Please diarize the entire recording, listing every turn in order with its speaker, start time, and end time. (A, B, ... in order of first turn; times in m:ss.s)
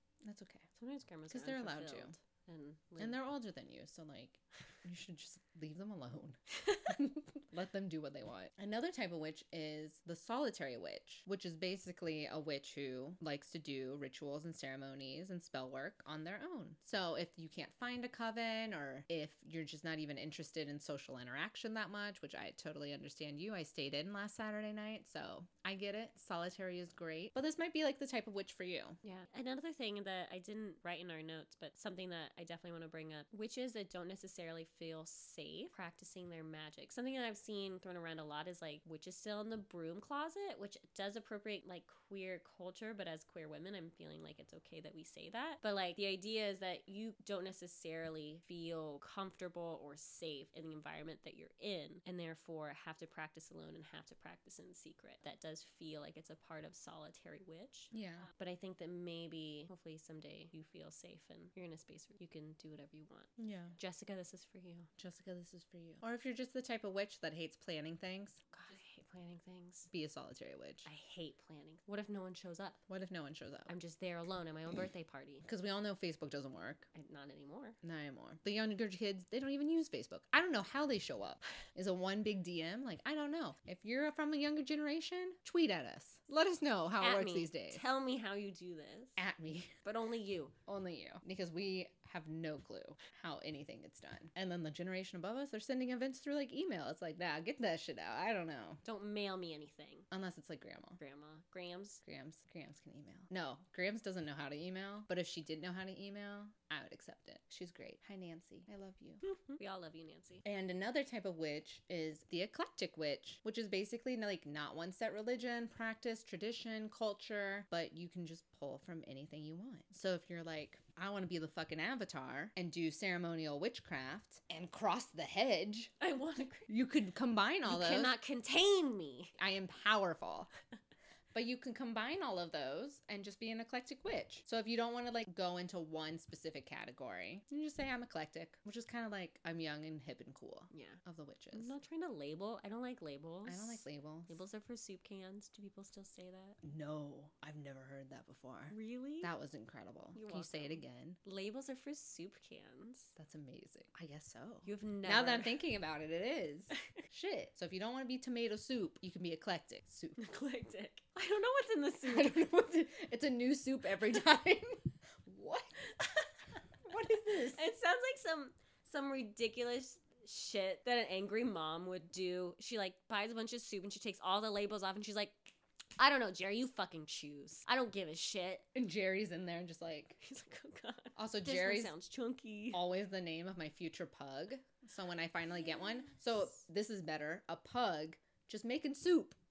0:00.2-0:00.7 A
0:00.8-0:03.2 B
0:01.3-0:02.1 A
0:03.0-0:29.0 A
0:29.0-1:04.9 B
0:57.9-0:58.2 A
1:03.4-1:03.8 A
1:05.0-1:08.4 A
1:08.5-1:09.9 B
1:09.9-1:10.9 A
1:10.8-1:12.8 B
1:12.9-1:13.7 A
1:13.7-1:15.5 B
1:15.4-1:16.9 A
1:16.9-1:17.8 B
1:17.8-1:27.9 A
1:27.0-1:29.2 B
1:29.2-1:29.7 A
1:29.8-1:30.5 B
1:30.7-1:38.8 A
1:38.8-1:40.1 B
1:40.1-1:41.0 A
1:41.0-1:42.0 B
1:42.0-1:49.2 A
1:49.3-1:50.4 B
1:50.4-2:05.9 A
2:06.0-2:06.7 B
2:06.7-2:08.1 A
2:07.6-2:09.3 B
2:09.4-2:10.5 A
2:11.3-2:21.7 A
2:20.7-2:21.0 B
2:21.5-2:26.6 B
2:23.4-2:24.4 A
2:26.6-2:31.2 A
2:28.7-2:29.3 B
2:30.1-2:33.1 B
2:33.2-2:40.2 A
2:34.6-2:35.6 B
2:40.2-2:42.4 B
2:42.0-2:45.7 A
2:46.0-2:46.3 B
2:46.8-2:47.7 A
2:47.3-2:58.7 B
2:58.7-3:00.2 A
3:00.2-3:02.8 B
3:01.2-3:01.9 A
3:02.7-3:09.4 A
3:05.7-3:06.2 B